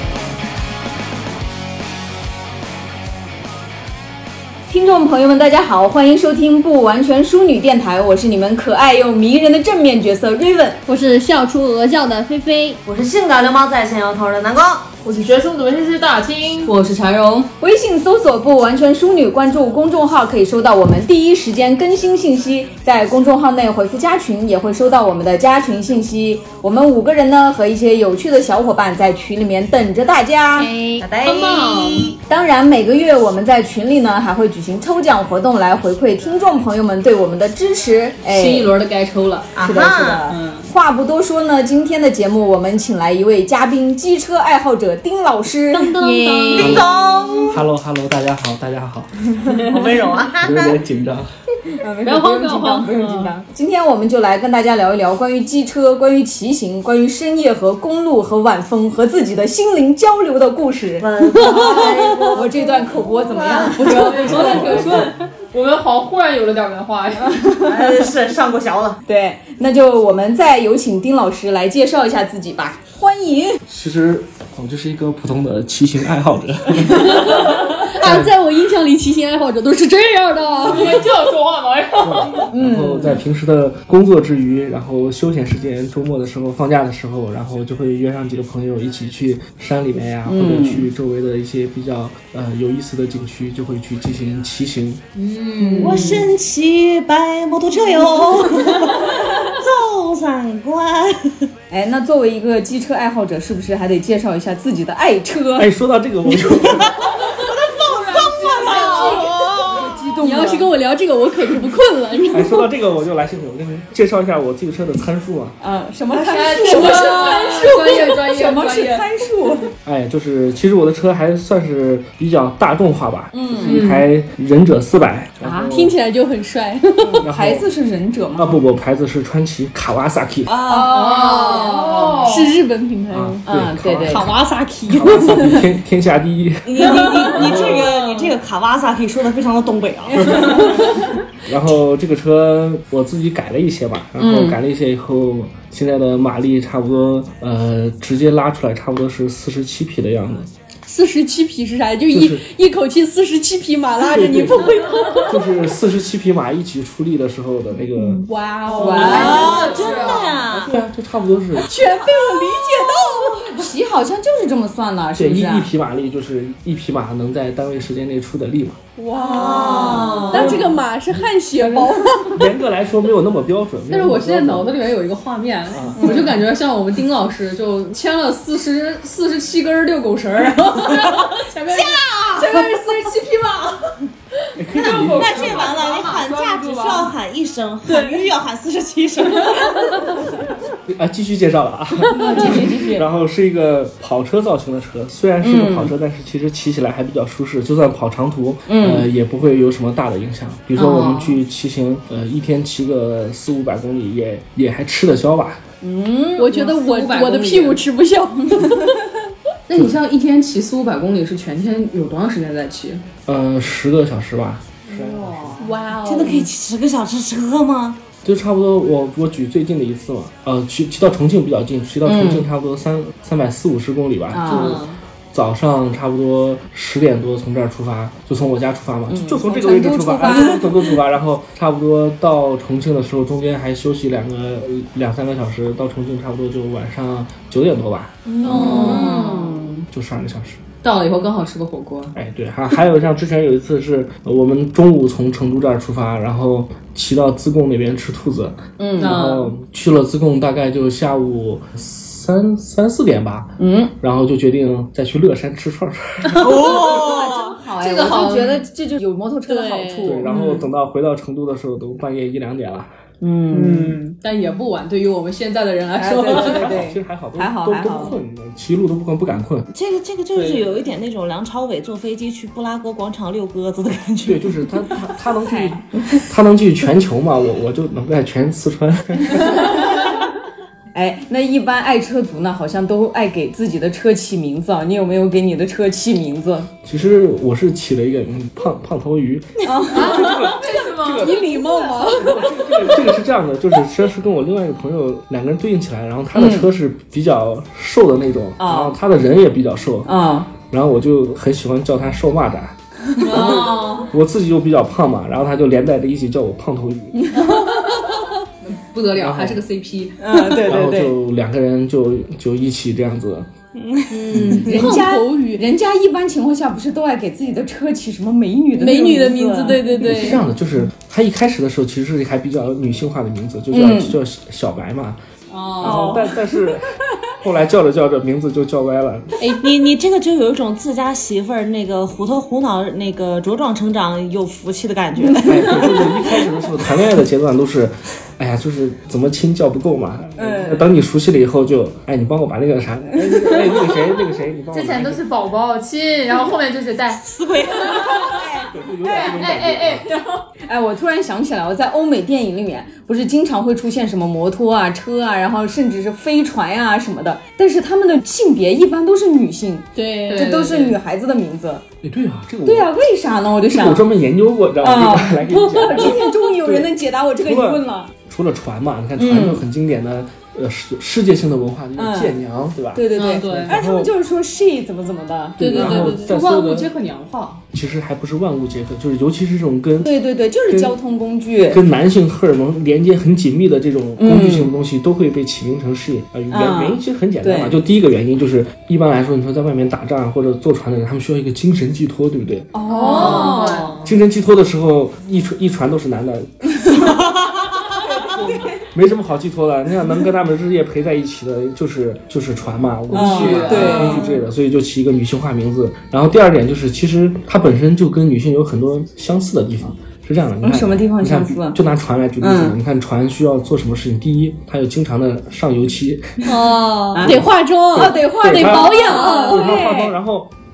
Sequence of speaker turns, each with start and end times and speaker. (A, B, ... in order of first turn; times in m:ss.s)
0:04.7-0:10.8 A
0:10.9-0:12.8 B
0:12.8-0:14.9 C
0:15.0-0:16.8 D
0:16.7-0:17.5 E
0:17.5-0:30.7 A
0:30.9-0:32.2 C
0:31.2-0:32.1 B
0:32.3-0:38.7 A
0:38.2-0:39.7 E
0:39.6-0:40.3 C
0:39.6-0:46.0 A
0:40.3-0:40.7 E
0:45.7-0:47.6 C
0:46.0-0:46.8 B
0:46.6-0:46.9 F
0:47.5-0:49.8 F
0:49.6-0:50.8 C
0:50.4-0:51.3 F
0:51.7-1:05.0 A
0:52.1-0:52.6 D
1:01.0-1:05.0 C
1:01.4-1:02.3 B
1:03.8-1:07.5 D
1:04.2-1:05.1 F
1:07.6-1:09.0 C
1:09.1-1:13.6 A
1:13.7-1:18.4 F
1:16.9-1:21.1 B
1:20.7-1:22.5 D
1:22.0-1:35.0 F
1:22.5-1:23.2 A
1:30.2-1:30.9 A
1:35.2-1:36.2 D
1:35.6-1:36.3 A
1:35.8-1:41.3 C
1:41.7-1:45.7 A
1:45.6-1:47.0 F
1:46.6-1:50.0 C
1:47.3-1:49.3 D
1:48.7-1:49.3 B
1:49.7-1:50.7 A
1:50.2-1:52.7 B
1:52.3-1:55.6 F
1:55.6-1:59.7 A
1:56.1-1:58.6 D
1:56.5-1:58.2 B
1:56.6-1:58.2 E
1:59.8-2:05.9 F
2:03.3-2:03.8 A
2:03.6-2:04.0 D
2:05.4-2:05.7 A
2:05.6-2:07.2 B
2:07.0-2:08.6 A
2:07.2-2:07.7 F
2:08.4-2:10.5 F
2:10.4-2:11.3 C
2:10.7-2:12.3 A
2:10.9-2:12.6 D
2:11.0-2:13.4 B
2:13.1-2:14.4 F
2:13.5-2:14.3 A
2:14.1-2:15.6 B
2:14.9-2:17.8 F
2:16.6-2:20.9 C
2:17.0-2:18.3 A
2:21.4-2:30.5 F
2:24.2-2:24.6 A
2:30.9-2:35.4 B
2:32.1-2:32.4 F
2:34.0-2:38.2 F
2:38.0-2:39.9 B
2:38.7-2:40.5 D
2:38.8-2:39.7 A
2:38.9-2:40.8 C
2:40.5-2:41.8 F
2:41.6-2:43.6 B
2:41.8-2:45.7 A
2:45.2-2:48.8 F
2:49.0-2:52.5 B
2:49.2-2:50.6 C
2:49.4-2:50.6 A
2:50.3-2:50.8 F
2:51.6-2:54.8 F
2:53.9-3:02.0 E
2:55.7-2:56.2 F
2:56.0-2:56.3 A
3:00.9-3:02.8 C
3:02.5-3:03.6 A
3:04.6-3:05.7 F
3:04.7-3:07.2 D
3:04.8-3:10.1 C
3:07.9-3:08.2 B
3:10.9-3:25.6 F
3:12.1-3:13.0 E
3:12.2-3:12.8 A
3:15.4-3:15.9 A
3:18.7-3:19.1 A
3:20.8-3:21.4 E
3:25.8-3:26.5 A
3:26.4-3:29.0 B
3:26.5-3:27.8 E
3:29.7-3:33.1 E
3:33.3-3:35.6 F
3:35.2-3:35.6 A
3:35.6-3:36.5 B
3:35.9-3:38.0 C
3:38.2-3:59.1 F
3:42.0-3:42.5 A
3:44.3-3:44.8 A
3:44.5-3:45.0 C
3:49.1-3:51.0 A
3:58.4-3:59.8 E
3:58.4-3:59.8 A
3:58.5-3:59.3 B
3:59.9-4:00.6 F
4:00.8-4:02.1 E
4:02.1-4:16.8 F
4:08.8-4:09.2 A
4:09.0-4:09.5 E
4:13.6-4:13.9 A
4:16.3-4:17.6 C
4:16.5-4:20.7 A
4:17.8-4:18.6 E
4:19.5-4:20.2 B
4:20.0-4:22.9 F
4:23.2-4:24.0 A
4:23.5-4:26.7 E
4:26.0-4:28.1 A
4:26.3-4:29.7 F
4:29.7-4:34.7 C
4:30.4-4:30.7 E
4:34.2-4:39.6 F
4:35.4-4:35.8 A
4:40.9-4:46.7 A
4:46.8-5:07.4 F
4:49.6-4:50.5 A
4:49.9-4:51.8 D
4:51.2-4:52.6 B
4:56.3-4:56.7 A
4:58.6-4:59.0 A
5:00.0-5:00.5 A
5:03.2-5:04.1 A
5:03.3-5:04.0 E
5:08.6-5:10.7 E
5:09.2-5:09.6 F
5:10.2-5:11.2 A
5:10.6-5:13.5 F
5:14.1-5:15.6 B
5:14.3-5:14.9 F
5:14.3-5:20.2 A
5:18.7-5:20.4 B
5:20.0-5:25.2 F
5:23.7-5:24.2 A
5:25.5-5:26.2 E
5:25.6-5:26.3 A
5:25.8-5:26.9 F
5:27.4-5:29.4 F
5:29.6-5:36.3 C
5:35.3-5:35.8 A
5:35.4-5:45.2 F
5:40.4-5:40.9 A
5:43.3-5:43.7 A
5:44.7-5:48.4 D
5:47.2-5:48.4 C
5:48.2-5:49.4 A
5:48.6-5:50.1 F
5:49.0-5:50.4 D
5:50.7-6:01.8 A
6:00.0-6:00.6 B
6:00.3-6:01.0 E
6:02.0-6:02.9 F
6:02.7-6:04.1 A
6:03.7-6:13.0 F
6:04.8-6:08.1 A
6:09.2-6:09.6 A
6:12.0-6:12.4 A
6:12.9-6:16.2 A
6:13.2-6:13.6 D
6:13.2-6:13.7 E
6:13.6-6:14.1 F
6:15.6-6:16.9 F
6:15.6-6:16.3 B
6:16.0-6:17.6 E
6:17.7-6:20.1 F
6:20.0-6:21.8 A
6:20.7-6:21.0 F
6:21.7-6:32.7 F
6:24.2-6:24.7 A
6:26.5-6:27.8 A
6:32.7-6:34.0 A
6:32.9-6:34.0 D
6:33.1-6:34.0 E
6:34.0-6:37.2 F
6:38.0-6:38.8 A
6:38.4-6:56.5 F
6:43.1-6:44.2 E
6:43.1-6:44.2 A
6:44.1-6:44.4 C
6:50.6-6:51.8 A
6:52.4-6:52.8 A
6:56.5-6:59.6 B
6:57.1-6:57.4 A
6:57.2-7:00.5 F
6:57.9-7:00.2 A